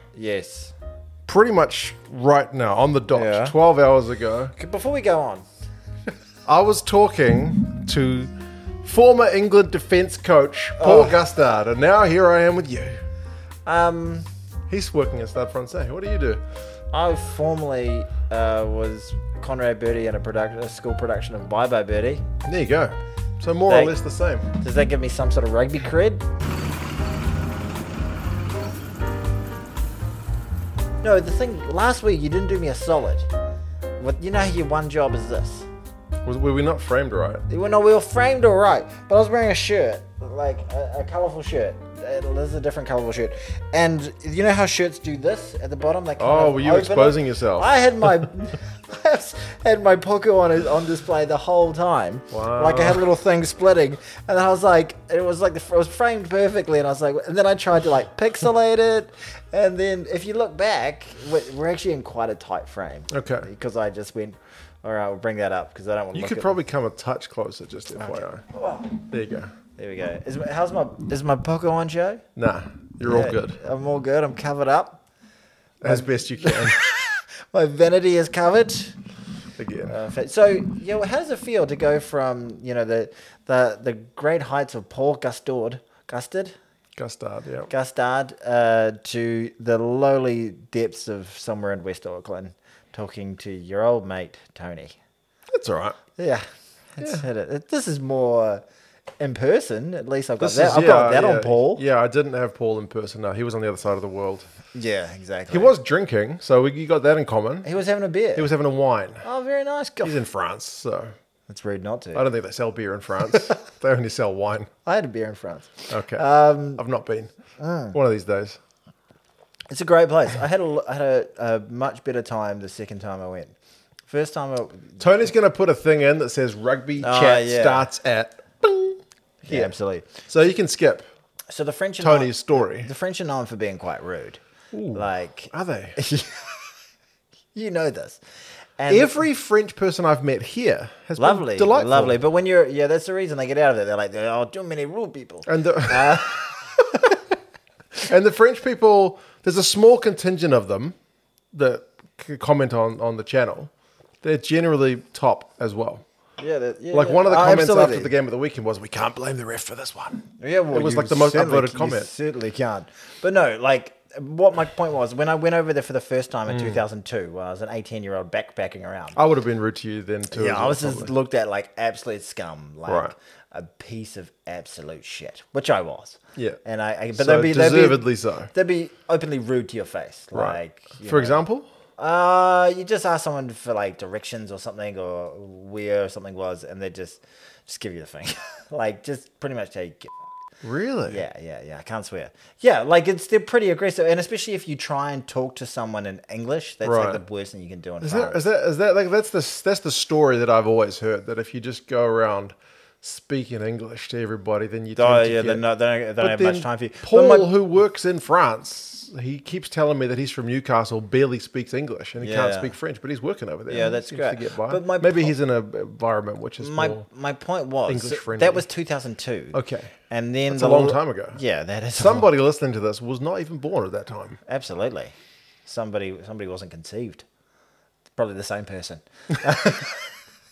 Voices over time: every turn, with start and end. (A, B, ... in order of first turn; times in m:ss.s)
0:00.2-0:00.7 A
0:01.3-0:04.5 B
0:03.1-0:03.5 A
0:04.6-0:05.4 A
0:06.5-0:13.0 B
0:10.8-0:11.2 A
0:13.6-0:14.3 A
0:14.7-0:16.4 B
0:16.9-0:22.2 A
0:22.4-0:24.5 B
0:23.7-0:24.0 A
0:24.6-0:26.2 A
0:31.0-0:33.3 A
0:34.0-0:35.7 A
0:36.2-0:37.4 B
0:37.5-1:06.6 A
0:46.2-0:48.3 B
0:52.3-0:53.0 B
1:03.1-1:03.5 B
1:06.1-1:08.4 B
1:08.0-1:09.0 A
1:09.1-1:09.5 B
1:09.8-1:12.2 A
1:12.4-1:13.6 B
1:13.0-1:15.0 A
1:15.8-1:16.8 B
1:15.8-1:19.0 A
1:19.6-1:20.0 B
1:19.9-1:26.6 A
1:27.0-1:27.7 B
1:27.7-1:35.0 A
1:35.5-1:36.0 B
1:36.2-1:38.6 A
1:37.0-1:37.2 B
1:39.2-1:41.8 A
1:40.4-1:44.4 B
1:44.7-1:45.7 A
1:45.5-1:47.7 B
1:47.6-1:48.5 A
1:48.3-1:49.2 B
1:49.2-1:50.2 A
1:50.0-1:51.1 B
1:51.5-1:52.2 A
1:52.1-1:54.7 B
1:54.8-1:56.8 A
1:55.9-1:56.2 B
1:56.8-1:57.3 B
1:57.6-1:58.0 A
1:57.9-1:58.6 B
1:59.7-2:03.6 A
2:04.1-2:05.3 A
2:05.0-2:11.0 B
2:07.0-2:07.9 A
2:09.5-2:10.1 A
2:11.5-2:14.4 A
2:12.0-2:12.9 B
2:14.7-2:16.0 B
2:14.9-2:16.7 A
2:17.5-2:18.2 A
2:18.8-2:19.2 A
2:18.9-2:22.2 B
2:21.2-2:27.2 A
2:25.5-2:26.5 B
2:28.0-2:30.9 B
2:31.5-2:33.7 B
2:34.2-2:36.0 B
2:36.4-2:38.1 A
2:36.9-2:42.1 B
2:40.4-2:49.2 A
2:46.5-2:46.8 B
2:49.2-2:51.1 B
2:50.3-3:01.4 A
2:52.8-2:53.1 B
2:57.1-2:58.5 B
3:00.3-3:01.7 B
3:02.0-3:10.1 A
3:10.6-3:11.2 B
3:11.1-3:18.4 A
3:16.8-3:17.2 B
3:18.0-3:25.6 B
3:24.9-3:27.5 A
3:26.2-3:37.0 B
3:32.2-3:32.7 A
3:33.7-3:35.3 A
3:36.6-3:39.6 A
3:37.9-3:38.6 B
3:39.5-3:39.9 B
3:40.1-3:42.3 A
3:40.5-3:41.4 B
3:41.9-3:44.4 B
3:44.5-3:45.1 A
3:45.7-3:47.2 A
3:48.2-3:50.1 A